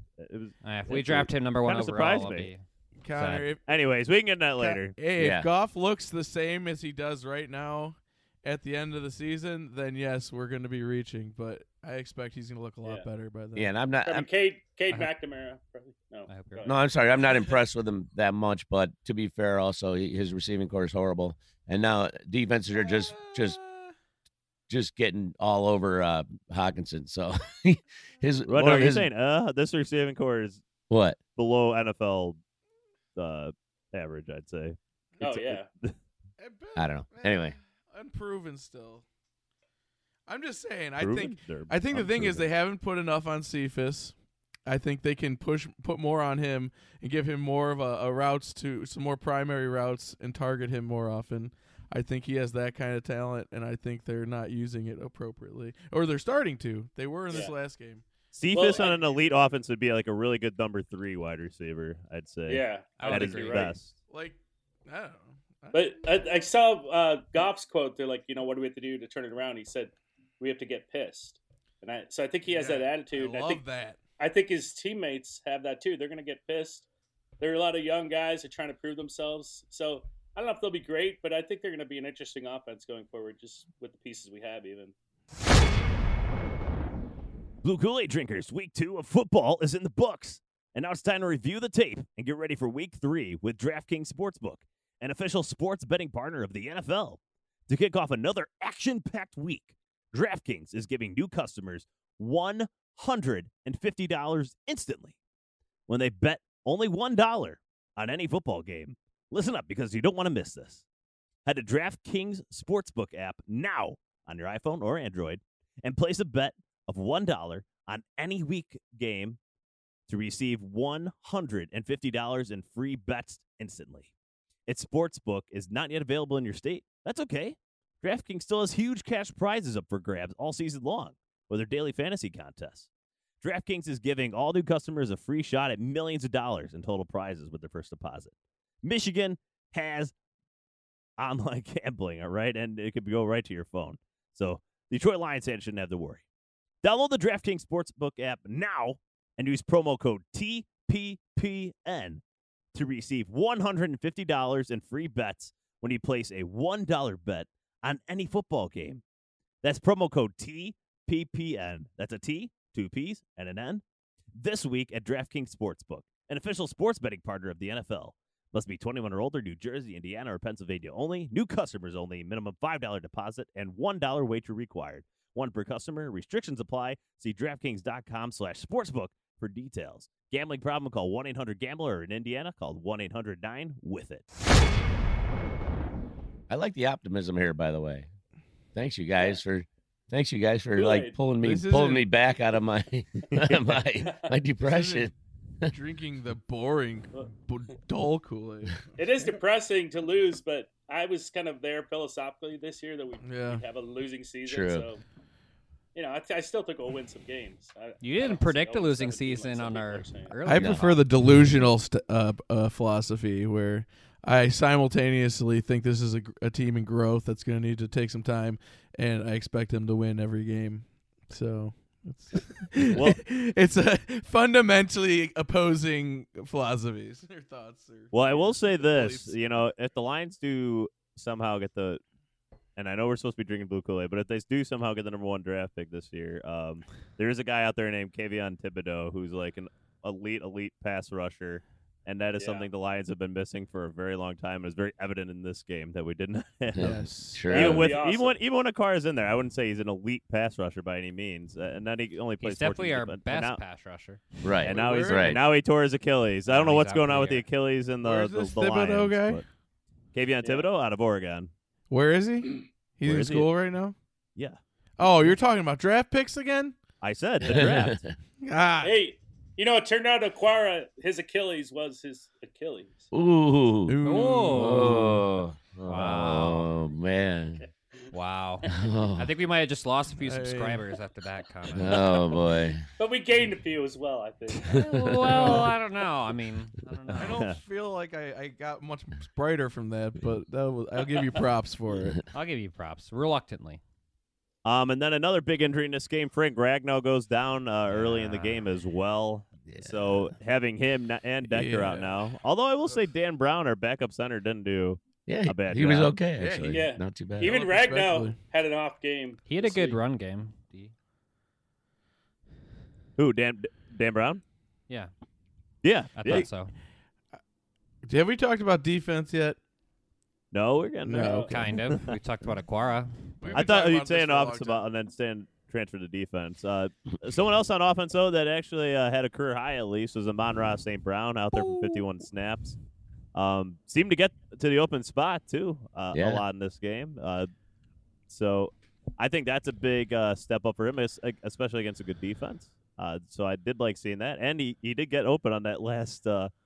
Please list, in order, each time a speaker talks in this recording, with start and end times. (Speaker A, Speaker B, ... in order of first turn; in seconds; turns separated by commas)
Speaker A: 0.2-2.5, Speaker B: 0.6-3.5, Speaker C: 3.0-3.6, Speaker A: 3.7-5.0, Speaker C: 4.6-13.7, Speaker D: 5.2-5.5, Speaker D: 13.6-14.3, Speaker E: 14.0-16.8, Speaker B: 16.3-16.7, Speaker D: 16.6-23.6, Speaker C: 22.7-23.9, Speaker D: 24.7-29.1, Speaker A: 28.5-30.6, Speaker D: 30.9-31.2, Speaker A: 31.4-32.4, Speaker A: 33.2-36.0, Speaker E: 35.2-35.7, Speaker C: 36.4-39.0, Speaker D: 36.8-37.6, Speaker C: 40.3-44.1, Speaker A: 41.0-42.5, Speaker C: 44.7-58.0, Speaker E: 57.3-57.5, Speaker A: 58.3-64.0, Speaker E: 58.5-59.2, Speaker E: 62.5-63.8, Speaker B: 63.0-63.8, Speaker C: 64.1-66.3, Speaker E: 65.7-73.6, Speaker C: 72.5-74.0, Speaker E: 74.2-76.9, Speaker E: 77.4-84.9, Speaker A: 87.6-105.2, Speaker A: 105.9-110.8, Speaker A: 111.5-119.4, Speaker A: 120.1-124.1, Speaker A: 124.7-132.9, Speaker A: 133.4-138.3, Speaker A: 138.8-140.1, Speaker A: 141.2-146.2, Speaker A: 146.8-152.2, Speaker A: 152.7-159.0, Speaker A: 159.6-163.8, Speaker A: 164.3-184.2, Speaker D: 186.5-188.1, Speaker D: 188.7-195.7, Speaker E: 190.8-191.2, Speaker C: 191.4-192.1, Speaker C: 194.6-195.1, Speaker C: 195.7-199.3, Speaker E: 199.0-205.0, Speaker C: 203.2-203.6, Speaker D: 204.5-204.9, Speaker E: 205.9-210.4, Speaker B: 208.0-211.0, Speaker C: 210.5-229.3, Speaker D: 210.5-210.8, Speaker A: 222.9-223.2, Speaker A: 228.1-232.0, Speaker A: 232.8-253.6, Speaker E: 242.4-242.7, Speaker D: 246.7-247.9, Speaker C: 246.8-247.8, Speaker E: 247.5-248.4, Speaker B: 252.4-254.4, Speaker D: 254.4-255.4, Speaker A: 254.6-259.4, Speaker C: 254.6-255.5, Speaker B: 256.5-257.4, Speaker C: 258.0-259.4, Speaker A: 260.1-261.5, Speaker C: 261.9-263.9, Speaker A: 263.0-263.5, Speaker C: 265.0-266.8, Speaker A: 267.0-268.0, Speaker D: 267.4-268.1, Speaker C: 268.4-269.0, Speaker E: 268.8-273.1, Speaker D: 273.1-274.0, Speaker C: 273.9-275.3, Speaker B: 274.0-275.1, Speaker D: 274.5-277.6, Speaker B: 275.9-276.7, Speaker B: 278.1-282.2, Speaker D: 278.7-279.3, Speaker C: 280.2-280.8, Speaker D: 281.7-282.8, Speaker E: 283.0-284.8, Speaker D: 284.6-285.6, Speaker B: 284.7-287.4, Speaker C: 285.3-285.7, Speaker C: 287.1-292.2, Speaker B: 292.3-293.8, Speaker A: 294.6-306.2, Speaker B: 297.9-298.6, Speaker D: 299.7-300.3, Speaker C: 301.5-302.3, Speaker D: 305.3-307.6, Speaker C: 306.4-308.4, Speaker E: 306.7-310.0, Speaker B: 309.5-310.9, Speaker A: 313.2-314.4, Speaker A: 315.8-316.5, Speaker B: 316.2-316.8, Speaker C: 318.1-319.6, Speaker A: 320.5-322.1, Speaker C: 321.0-321.7, Speaker B: 321.5-323.7, Speaker C: 323.4-324.8, Speaker A: 323.5-332.8, Speaker B: 331.6-332.0, Speaker A: 333.3-337.5, Speaker D: 336.1-336.4, Speaker A: 338.3-346.5